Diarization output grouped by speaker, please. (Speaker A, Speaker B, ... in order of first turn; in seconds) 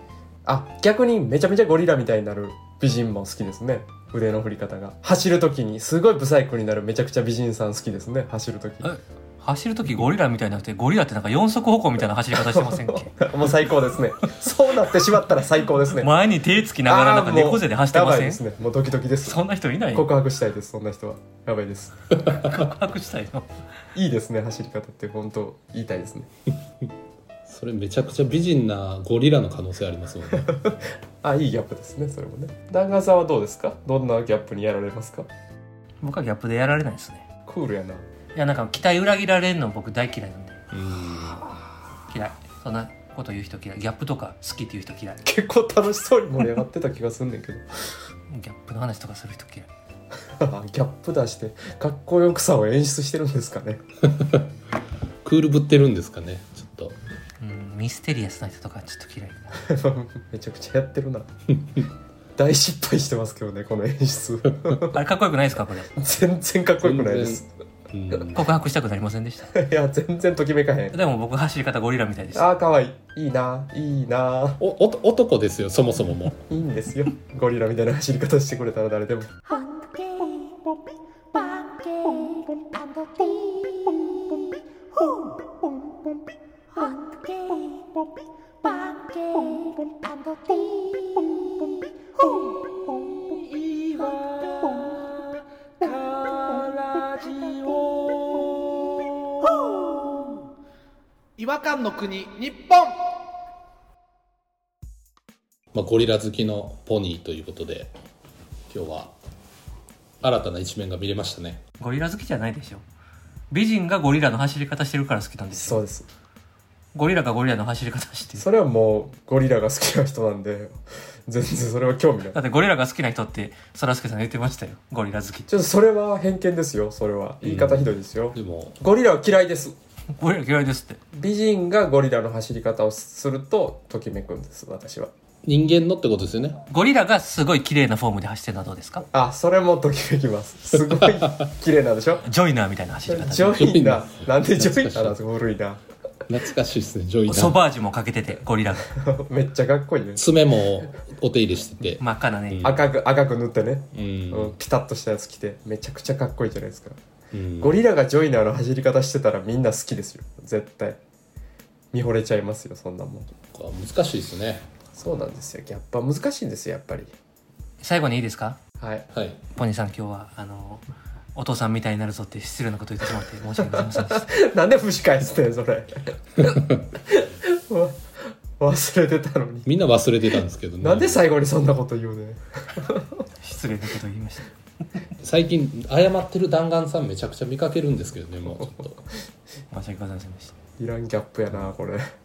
Speaker A: 0.5-8.9, 12.3-16.1, 16.9-19.4, 19.9-22.2, 23.9-26.3, 30.4-35.3, 37.5-38.0, 41.2-41.6, 45.2-47.6, 50.4-53.8, 59.6-61.3, 62.4-65.0, 66.0-67.5, 69.5-71.0, 72.3-74.6, 76.5-79.6, 115.5-116.1, 118.3-122.4, 125.5-129.8, 131.1-135.1, 139.1-142.2, 143.1-145.8, 148.9-150.2, 152.6-157.0, 157.6-161.0, 161.9-163.3, 164.9-167.1, 168.8-169.1, 173.6-179.7, 180.8-183.1, 190.8-192.1
Speaker B: 8.8-13.1, 15.9-18.4, 19.2-20.1, 22.4-23.5, 36.0-37.2, 38.3-40.6, 42.1-45.2, 48.3-49.7, 57.4-59.6, 64.9-65.9, 68.3-69.5, 70.9-72.5, 111.8-112.8, 113.5-115.8, 117.0-118.5, 122.3-125.5, 130.2-131.0, 136.7-139.1, 142.2-143.6, 147.3-148.9, 152.0-152.8, 167.8-168.6, 169.6-170.8, 171.3-174.3, 183.4-184.5, 189.7-190.5
Speaker C: 22.3-22.6, 27.5-30.6, 40.7-41.4, 54.1-54.4, 55.2-57.0, 66.8-68.5, 74.6-76.4, 105.7-107.9, 108.7-109.1, 110.2-111.6, 127.4-128.8, 135.4-136.6, 140.8-141.5, 143.5-145.2, 146.3-147.6, 150.2-152.9, 153.9-154.6, 157.3-157.8, 163.5-164.7, 169.1-169.4, 179.7-181.2, 185.2-189.0
Speaker D: 93.6-94.6, 95.8-98.2, 101.4-102.9